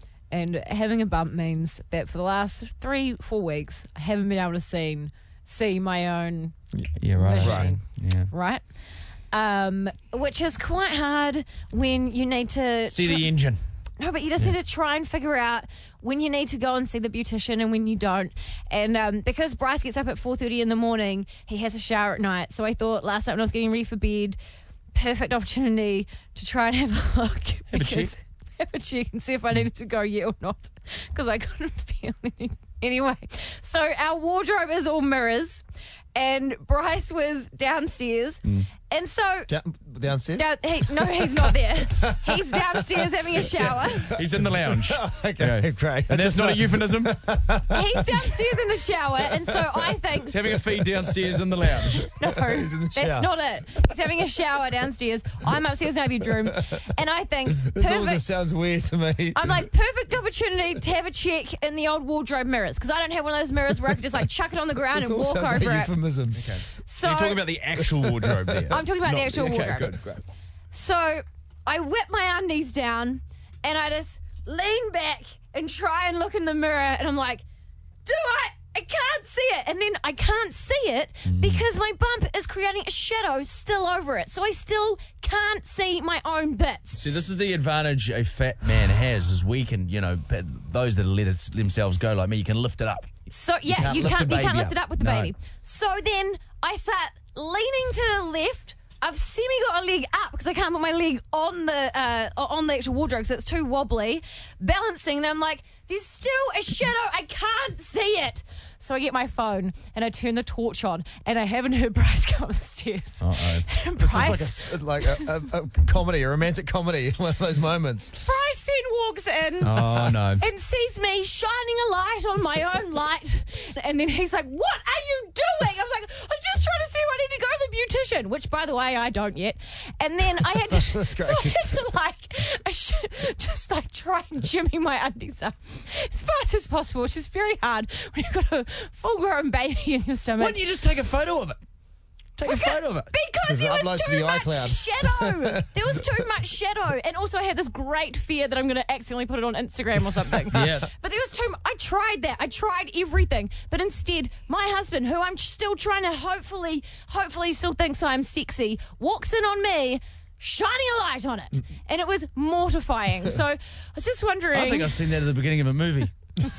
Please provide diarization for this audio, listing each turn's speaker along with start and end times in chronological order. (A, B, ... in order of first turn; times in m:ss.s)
0:00.3-0:06.6 A
0:07.0-0:08.3 B
0:07.2-0:08.6 A
0:07.4-0:07.7 C
0:09.3-0:13.3 A
0:12.9-0:13.6 B
0:14.0-0:24.4 A
0:24.9-0:35.6 A
0:27.7-0:28.1 B
0:36.1-0:39.5 A
0:39.5-0:40.5 C
0:40.4-0:44.1 A
0:42.0-0:42.8 C
0:43.6-0:47.2 B
0:43.6-0:48.4 C
0:47.7-0:50.4 A
0:50.3-0:52.0 B
0:52.0-0:58.2 A
0:52.2-0:53.3 C
0:57.6-0:59.6 C
0:59.3-1:05.9 A
1:04.9-1:06.5 C
1:06.4-1:10.2 B
1:06.9-1:07.4 A
1:08.0-1:08.7 C
1:08.7-1:10.0 A
1:10.7-1:17.4 A
1:18.1-1:27.0 A
1:21.2-1:21.6 B
1:27.0-1:33.1 B
1:33.3-1:55.2 A
1:33.7-1:35.3 B
1:53.2-1:53.7 B
1:54.0-1:58.2 C
1:58.2-2:20.6 A
1:59.6-2:00.4 B
2:10.6-2:11.7 C
2:20.4-2:21.6 B
2:22.4-2:23.1 B
2:22.5-2:44.9 A
2:23.5-2:26.0 C
2:30.5-2:30.9 B
2:44.5-2:46.1 B